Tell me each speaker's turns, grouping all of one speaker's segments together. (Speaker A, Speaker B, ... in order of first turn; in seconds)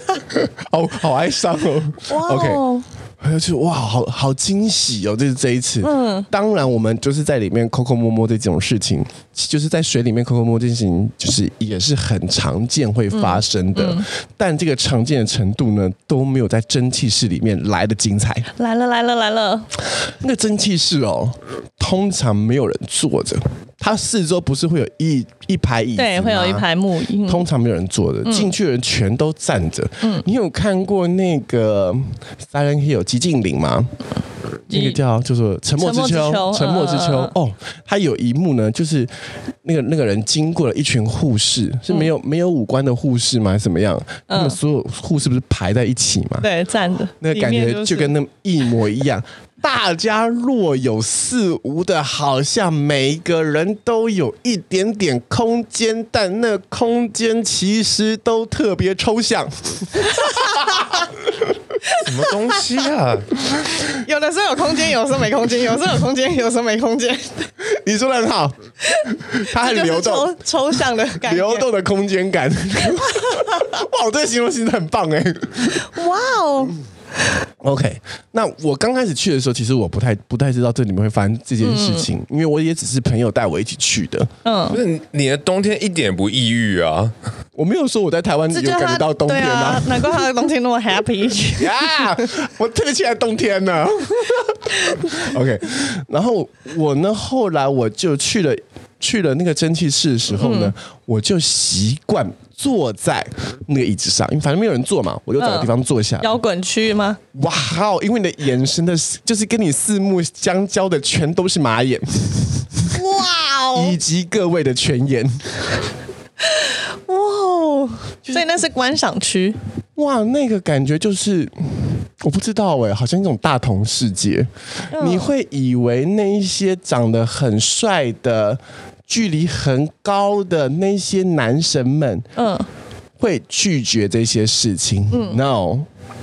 Speaker A: 0.3-2.6, 3.2-18.5, 20.1-26.7, 27.2-33.9, 34.7-39.1, 39.6-46.5, 47.2-61.5, 67.6-68.6, 69.1-70.3, 71.2-75.9, 77.6-84.3, 87.6-90.3, 91.6-106.3, 107.3-112.9, 113.7-115.8, 120.0-132.3, 133.2-135.9
Speaker B: 2.1-2.9, 5.8-6.3, 13.1-14.1, 18.6-19.7, 26.0-27.5, 28.2-28.5, 34.7-35.0, 35.8-37.3, 44.3-44.6, 46.4-48.1, 60.1-61.0, 61.8-62.3, 63.9-67.5, 68.8-71.7, 73.2-73.5, 75.8-76.8, 81.6-82.1, 84.5-84.8, 88.5-92.0, 100.4-100.7, 105.4-107.2, 112.9-114.0, 116.4-119.6, 124.9-125.3, 132.4-132.7, 135.1-135.4
Speaker C: 61.9-63.4, 84.7-87.1